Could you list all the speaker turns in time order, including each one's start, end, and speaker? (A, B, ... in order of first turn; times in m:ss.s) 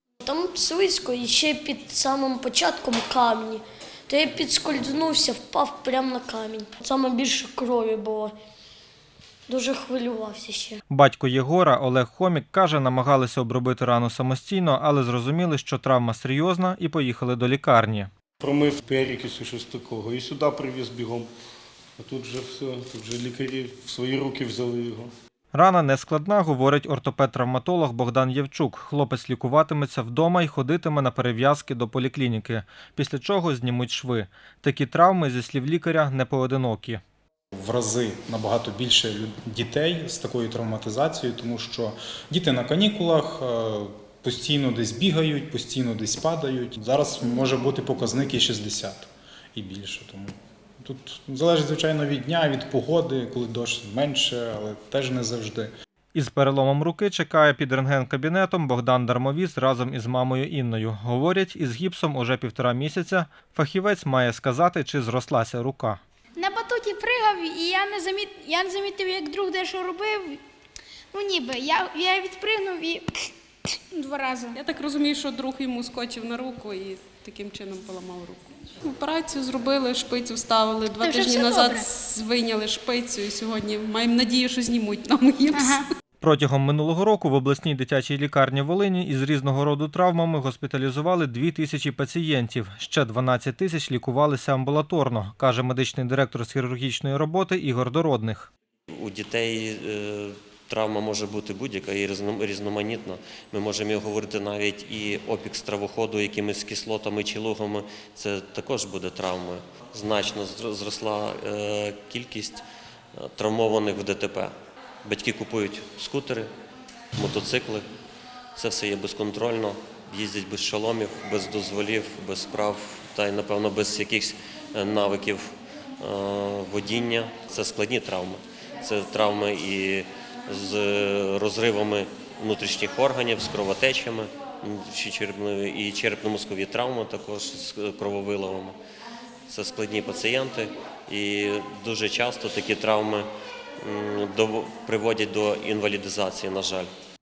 0:00.2-0:08.3 A
0:09.5-0:10.8 A
0:10.9-0:18.1 B
0:18.4-0:21.3 C
0:22.0-0:25.1 C
0:25.5-0:37.0 B
0:37.6-0:55.7 D
0:56.1-1:06.0 B
1:06.4-1:10.4 E
1:11.1-1:13.3 E
1:13.9-1:14.6 E
1:14.5-1:25.9 F
1:21.0-1:21.8 E
1:25.5-1:25.8 E
1:26.2-1:38.5 B
1:38.9-1:52.6 G
1:53.1-1:56.5 G
1:57.2-1:57.8 G
1:58.6-2:18.8 G
2:19.5-2:23.3 G
2:23.8-2:26.9 G